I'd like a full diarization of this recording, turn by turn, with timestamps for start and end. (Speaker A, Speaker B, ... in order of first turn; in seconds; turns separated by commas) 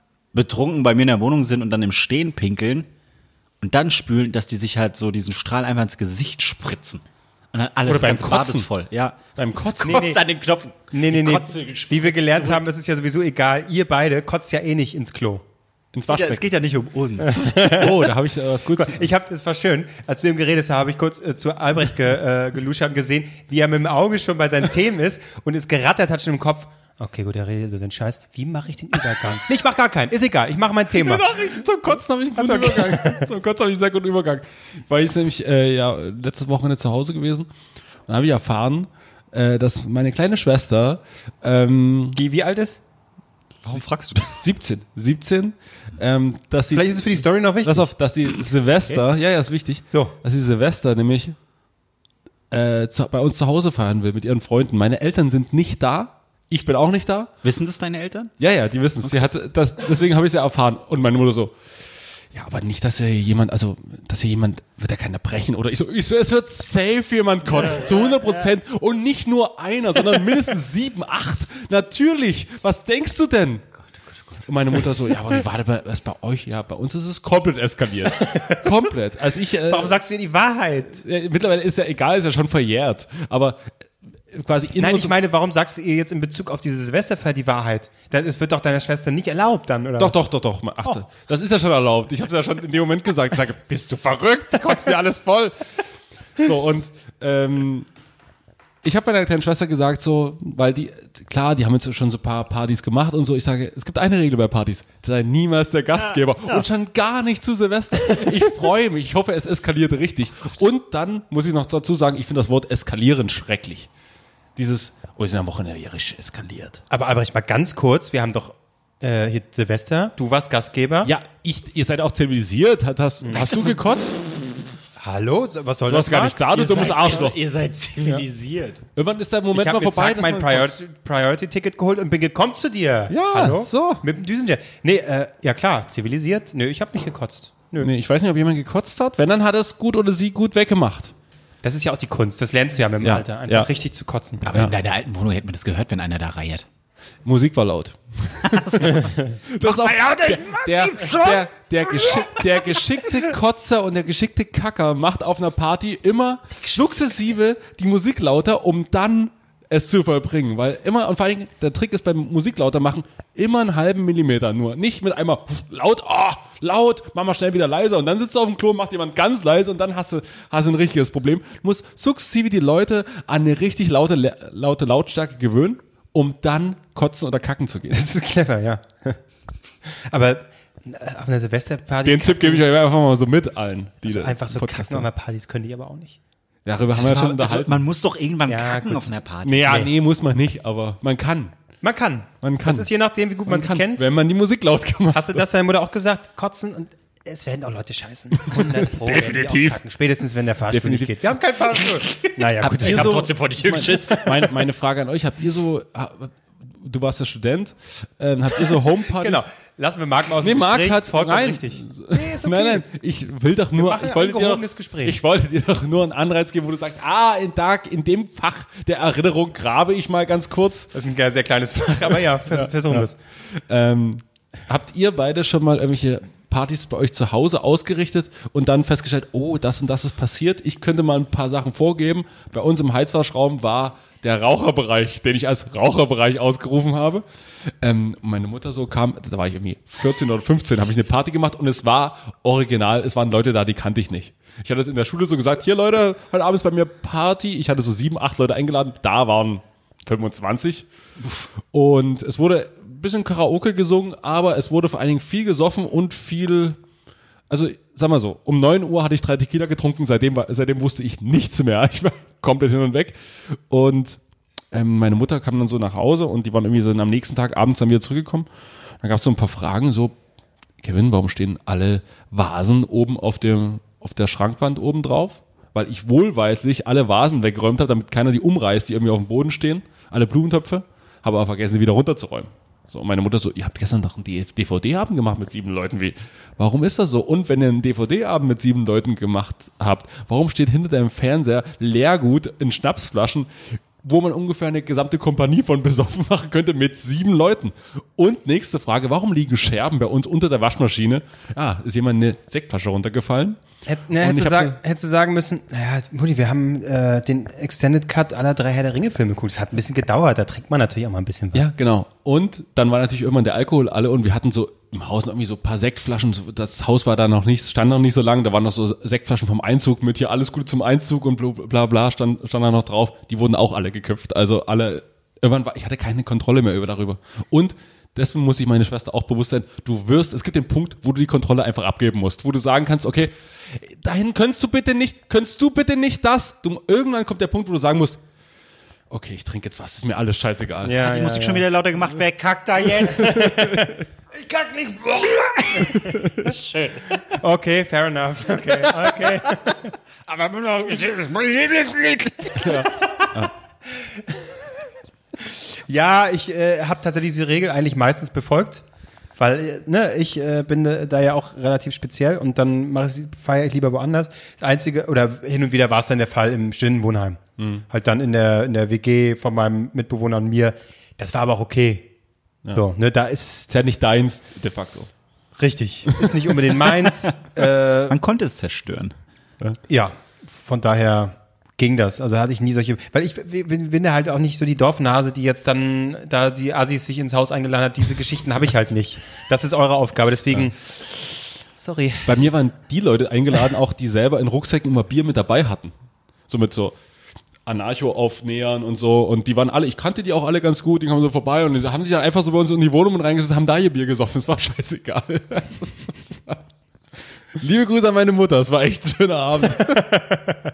Speaker A: 0.3-2.9, Speaker A: 3.6-12.6, Speaker B: 7.9-8.7, Speaker B: 9.3-10.0, Speaker C: 9.8-10.2, Speaker C: 10.9-15.4, Speaker B: 15.9-16.4, Speaker A: 16.1-17.9, Speaker C: 17.3-17.9, Speaker B: 17.6-19.1, Speaker C: 18.7-31.3, Speaker B: 30.9-37.5, Speaker C: 32.4-33.2, Speaker B: 38.1-42.2, Speaker C: 42.1-42.8, Speaker A: 43.6-44.5, Speaker B: 44.3-51.3, Speaker C: 46.7-47.9, Speaker B: 52.5-57.3, Speaker A: 57.4-58.3, Speaker B: 58.4-61.5, Speaker B: 62.3-73.7, Speaker A: 67.5-68.5, Speaker A: 73.8-74.4, Speaker B: 74.5-80.0, Speaker C: 79.7-81.0, Speaker B: 81.0-83.7, Speaker B: 84.3-85.1, Speaker C: 84.8-90.1, Speaker B: 90.0-95.8, Speaker B: 96.4-97.9, Speaker B: 98.8-113.9, Speaker A: 105.9-106.7, Speaker B: 114.5-116.8, Speaker C: 116.9-121.1, Speaker B: 121.0-124.2, Speaker C: 123.2-123.5, Speaker A: 123.5-123.8, Speaker C: 125.0-127.2, Speaker B: 125.9-127.4, Speaker A: 126.5-128.8, Speaker B: 128.9-130.7, Speaker C: 129.5-137.9, Speaker B: 133.1-134.0, Speaker B: 137.8-141.1, Speaker C: 141.6-144.4, Speaker B: 143.0-143.7, Speaker A: 144.4-146.7, Speaker B: 144.5-144.8, Speaker B: 147.2-178.0, Speaker A: 148.4-153.1, Speaker C: 177.9-179.2, Speaker C: 179.8-182.7, Speaker B: 182.0-185.1, Speaker C: 184.0-186.2, Speaker B: 186.6-187.8, Speaker A: 186.9-189.8, Speaker C: 188.5-189.1, Speaker B: 189.4-191.5, Speaker C: 191.8-194.0, Speaker B: 192.4-192.9, Speaker B: 193.4-195.4, Speaker C: 195.1-203.3, Speaker B: 198.7-199.8, Speaker B: 200.7-201.1, Speaker A: 202.1-204.6, Speaker B: 202.6-209.4, Speaker C: 209.2-212.9, Speaker B: 210.4-220.9, Speaker C: 213.8-215.2, Speaker C: 220.9-223.1, Speaker B: 222.5-250.8, Speaker A: 251.2-251.5, Speaker B: 251.7-256.8, Speaker B: 257.5-264.2, Speaker B: 264.7-268.5, Speaker B: 269.0-270.2, Speaker B: 270.8-303.6, Speaker C: 303.9-311.7, Speaker B: 304.2-304.8, Speaker B: 311.5-338.2, Speaker B: 339.1-341.0, Speaker C: 340.8-341.6, Speaker A: 340.9-343.5, Speaker C: 343.1-346.2, Speaker B: 343.3-343.9, Speaker A: 345.7-347.2, Speaker B: 346.0-346.4, Speaker C: 347.3-349.9, Speaker A: 348.9-349.3, Speaker A: 350.2-352.8, Speaker C: 352.5-353.3, Speaker B: 352.6-353.5, Speaker C: 355.5-358.8, Speaker C: 359.4-372.1, Speaker B: 367.6-367.8, Speaker C: 372.7-373.7, Speaker B: 373.7-375.1, Speaker C: 375.6-378.1, Speaker B: 376.1-376.4, Speaker A: 378.1-379.1, Speaker C: 379.9-391.0, Speaker C: 391.8-392.3, Speaker B: 392.2-395.9, Speaker B: 396.5-396.9, Speaker B: 397.6-406.6, Speaker B: 407.6-410.4